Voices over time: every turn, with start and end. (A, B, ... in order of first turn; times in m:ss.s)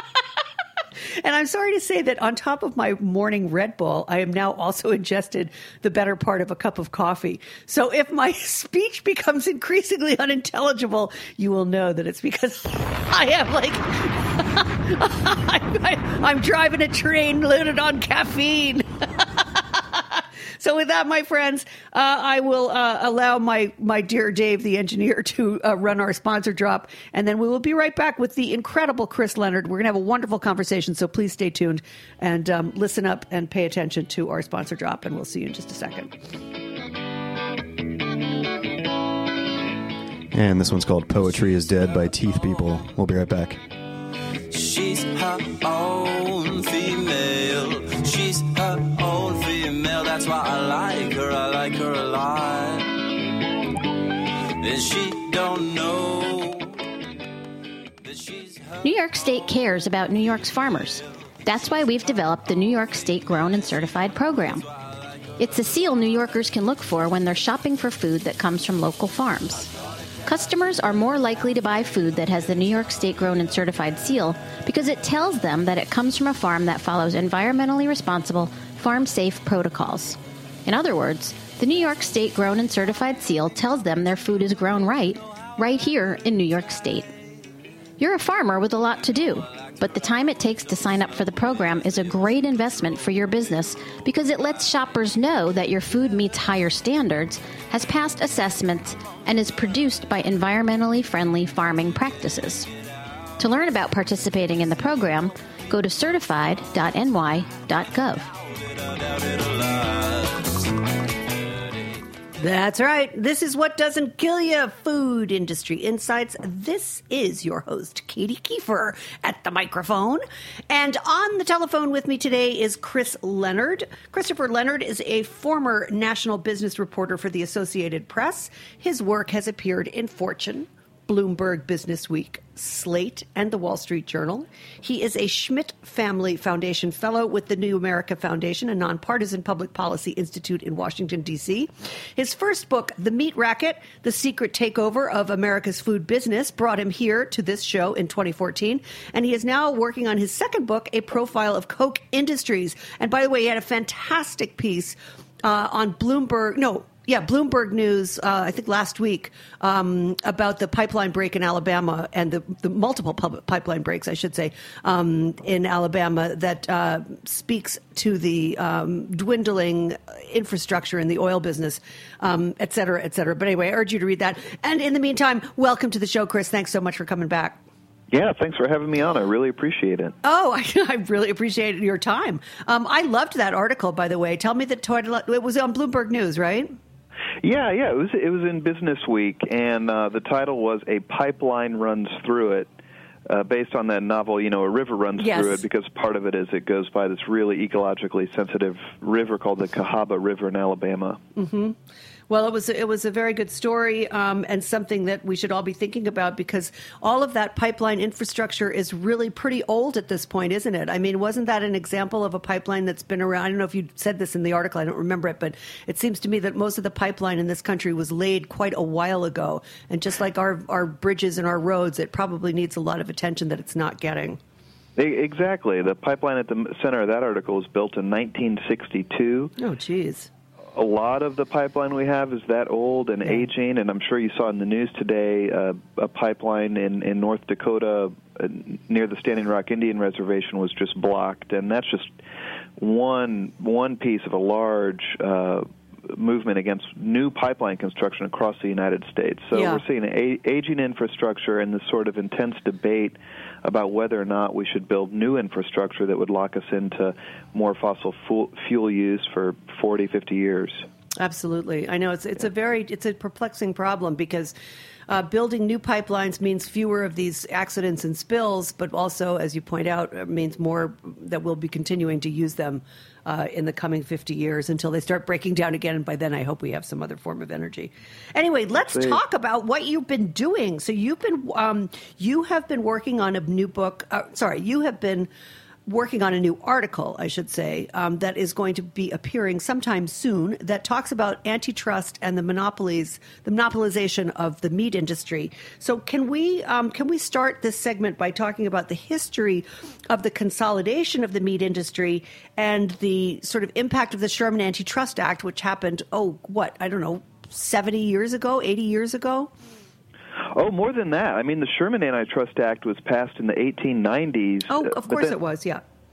0:01.1-0:36.1 A
0:40.3-0:43.6 B
0:44.5-0:52.9 C
0:54.6-0:56.8 C
0:58.0-0:58.8 C
0:58.8-1:04.6 D
1:05.4-1:09.7 D
1:10.3-1:27.1 D
1:28.0-1:42.7 D
1:43.4-1:48.3 D
1:48.8-1:50.6 C
1:52.4-2:57.6 A
2:58.1-3:00.2 E
3:00.2-3:06.7 A
3:07.4-3:12.7 E
3:13.3-3:21.2 E
3:15.2-3:15.6 A
3:21.4-3:21.8 A
3:22.3-3:44.4 A
3:45.0-3:49.5 E
3:49.6-3:50.3 A
3:50.7-4:02.2 E
4:02.8-4:20.8 E
4:09.5-4:09.8 A
4:21.2-4:24.6 A
4:25.1-4:45.3 A
4:38.9-4:39.2 E
4:45.9-5:09.5 A
5:10.5-5:15.4 E
5:14.7-5:15.8 A